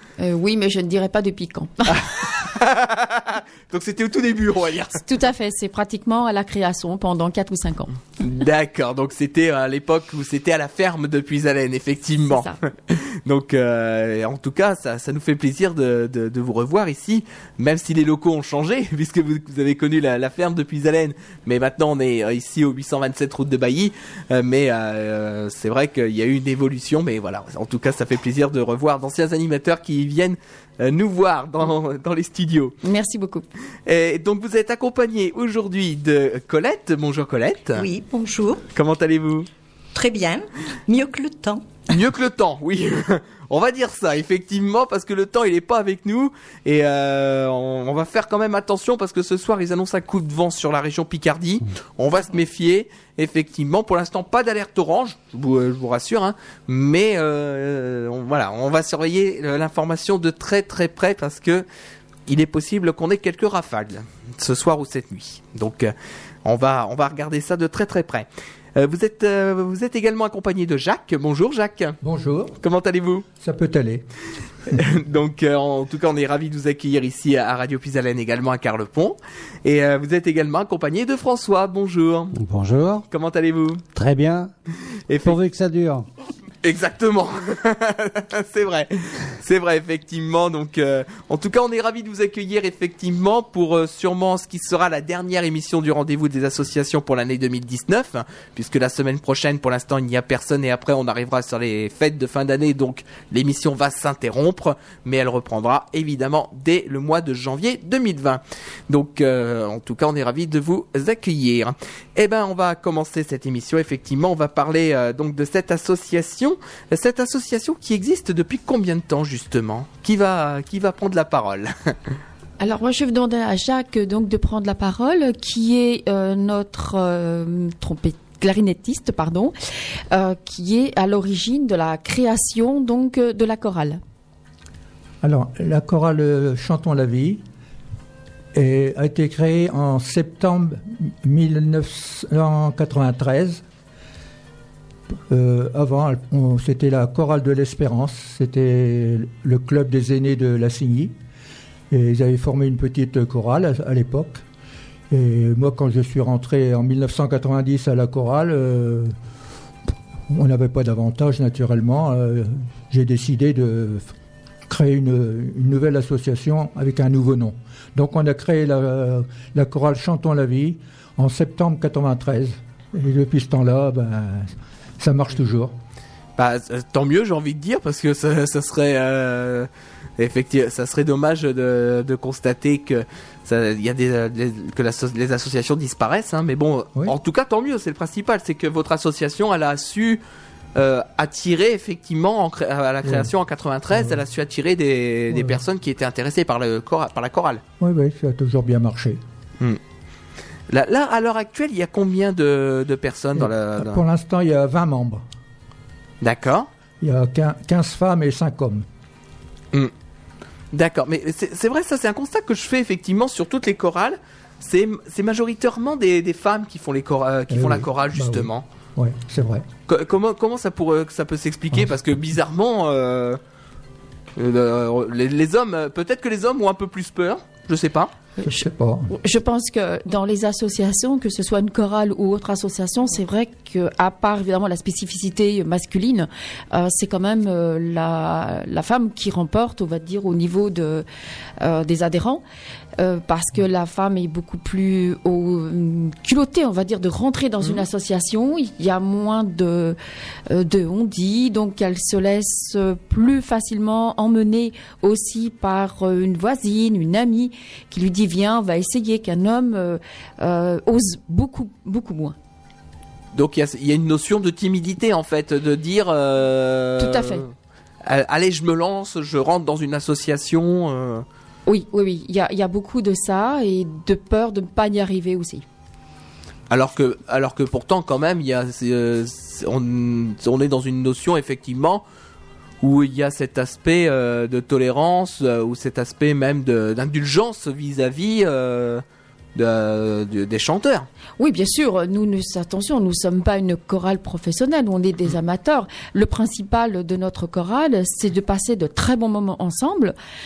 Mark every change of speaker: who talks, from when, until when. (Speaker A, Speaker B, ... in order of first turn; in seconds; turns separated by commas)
Speaker A: 0.2-2.0, Speaker B: 1.9-5.0, Speaker A: 5.0-8.0, Speaker B: 8.2-32.8, Speaker A: 12.3-12.6, Speaker A: 32.8-33.5, Speaker B: 33.9-37.9, Speaker C: 37.8-38.6, Speaker B: 38.7-39.5, Speaker C: 40.0-41.7, Speaker B: 41.9-61.6, Speaker B: 62.3-65.9, Speaker B: 66.5-72.0, Speaker D: 72.0-72.6, Speaker B: 72.6-73.3, Speaker D: 73.4-74.1, Speaker B: 74.8-82.3, Speaker E: 82.3-83.0, Speaker B: 83.1-83.8, Speaker E: 84.0-84.5, Speaker B: 85.1-85.4, Speaker E: 85.2-86.1, Speaker B: 86.6-122.0, Speaker A: 122.6-129.5, Speaker A: 130.1-134.0, Speaker D: 135.2-137.4, Speaker D: 138.5-143.6, Speaker D: 145.3-151.1, Speaker D: 151.9-154.4, Speaker D: 155.1-159.2, Speaker D: 160.3-164.1, Speaker D: 164.7-175.8, Speaker B: 176.4-190.2, Speaker B: 190.8-197.6, Speaker D: 193.0-193.3, Speaker D: 193.9-194.2, Speaker D: 195.3-195.6, Speaker D: 197.8-199.2, Speaker B: 200.7-204.0, Speaker D: 203.4-205.2, Speaker B: 206.2-206.7, Speaker D: 207.0-208.9, Speaker B: 210.7-218.6, Speaker D: 217.5-219.7, Speaker B: 219.9-223.4, Speaker B: 224.4-228.1, Speaker D: 228.4-229.1, Speaker A: 229.1-241.1, Speaker A: 241.6-242.4, Speaker A: 243.0-250.0, Speaker A: 250.5-262.4, Speaker B: 263.3-267.5, Speaker A: 267.0-267.4, Speaker B: 268.0-271.2, Speaker A: 271.7-275.6, Speaker B: 276.7-282.0, Speaker B: 282.8-289.0, Speaker B: 289.6-291.1, Speaker A: 291.4-300.2